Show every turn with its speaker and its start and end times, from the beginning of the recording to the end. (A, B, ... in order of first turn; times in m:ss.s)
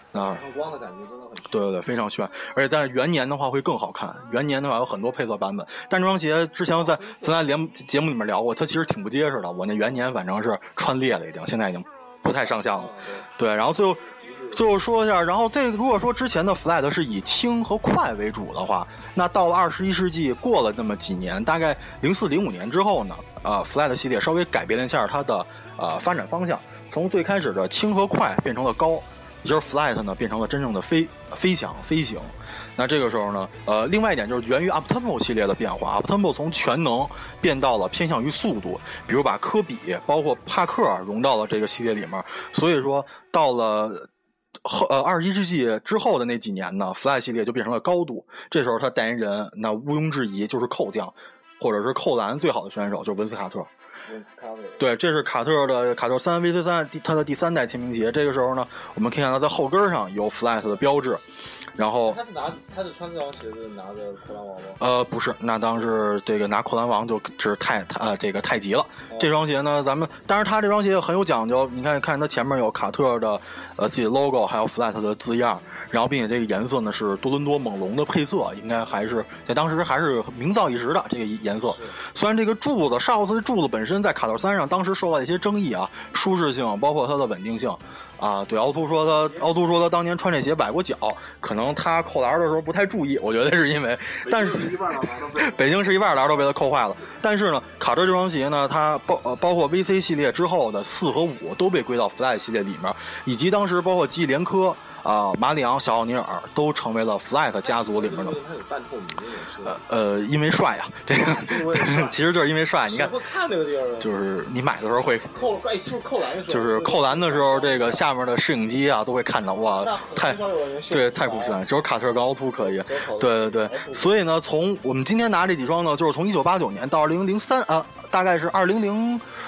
0:00.1-0:00.4 A
0:00.1-0:01.7 B
0:01.5-0:44.1 A
0:06.7-0:07.4 B
0:12.4-0:13.3 B
0:14.2-0:14.6 B
0:44.6-0:53.7 A
0:54.1-0:54.9 B
0:54.8-1:01.2 A
1:01.8-1:02.2 A
1:02.0-1:04.8 B
1:04.8-1:48.4 A
1:21.7-1:22.0 B
1:28.9-1:29.5 B
1:47.6-1:49.8 B
1:49.6-1:53.1 A
1:51.2-1:52.2 B
1:52.9-1:54.1 B
1:54.0-1:55.4 A
1:55.3-1:58.0 B
1:56.5-2:09.3 A
1:59.5-2:01.6 B
2:02.6-2:04.2 B